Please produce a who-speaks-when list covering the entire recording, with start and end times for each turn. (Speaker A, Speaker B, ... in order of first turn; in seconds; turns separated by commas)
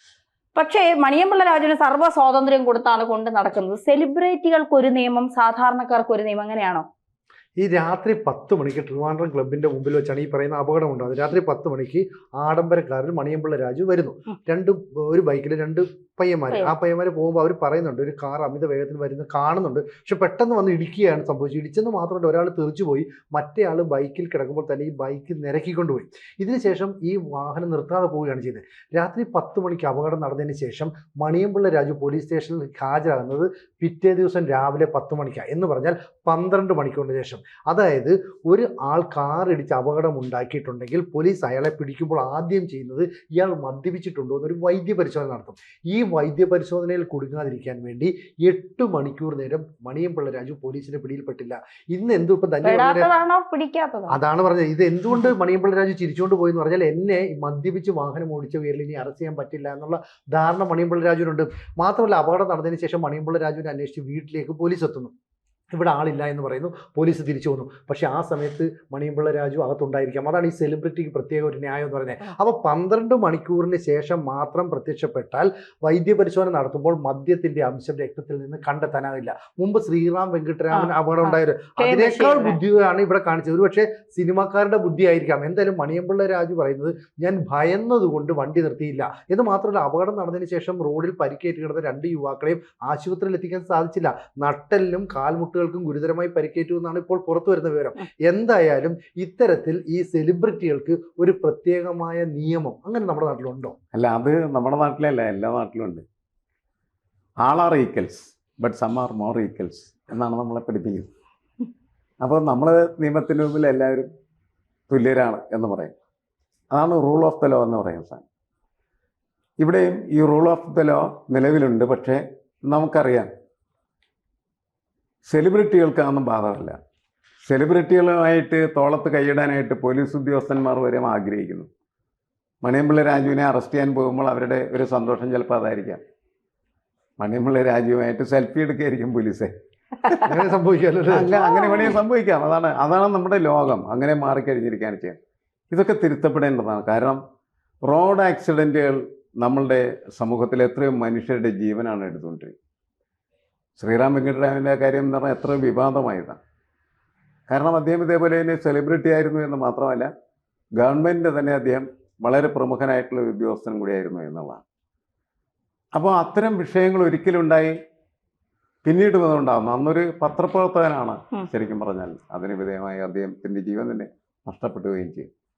Speaker A: 0.6-6.8, Speaker B: 7.6-53.1, Speaker A: 52.6-54.2, Speaker B: 54.1-65.1, Speaker B: 65.7-103.8, Speaker A: 80.7-82.6, Speaker C: 103.9-106.0, Speaker C: 107.4-111.1, Speaker C: 112.2-114.1, Speaker C: 114.9-115.9, Speaker C: 116.7-118.2, Speaker C: 119.6-123.3, Speaker C: 125.3-126.8, Speaker C: 127.4-131.7, Speaker C: 132.6-136.0, Speaker C: 137.2-139.5, Speaker C: 140.0-140.4, Speaker B: 140.3-141.3, Speaker C: 141.1-145.2, Speaker A: 141.4-142.0, Speaker C: 145.7-147.2, Speaker C: 147.9-152.5, Speaker C: 153.8-156.4, Speaker C: 157.5-160.1, Speaker C: 160.8-164.6, Speaker C: 166.0-167.7, Speaker C: 168.8-175.3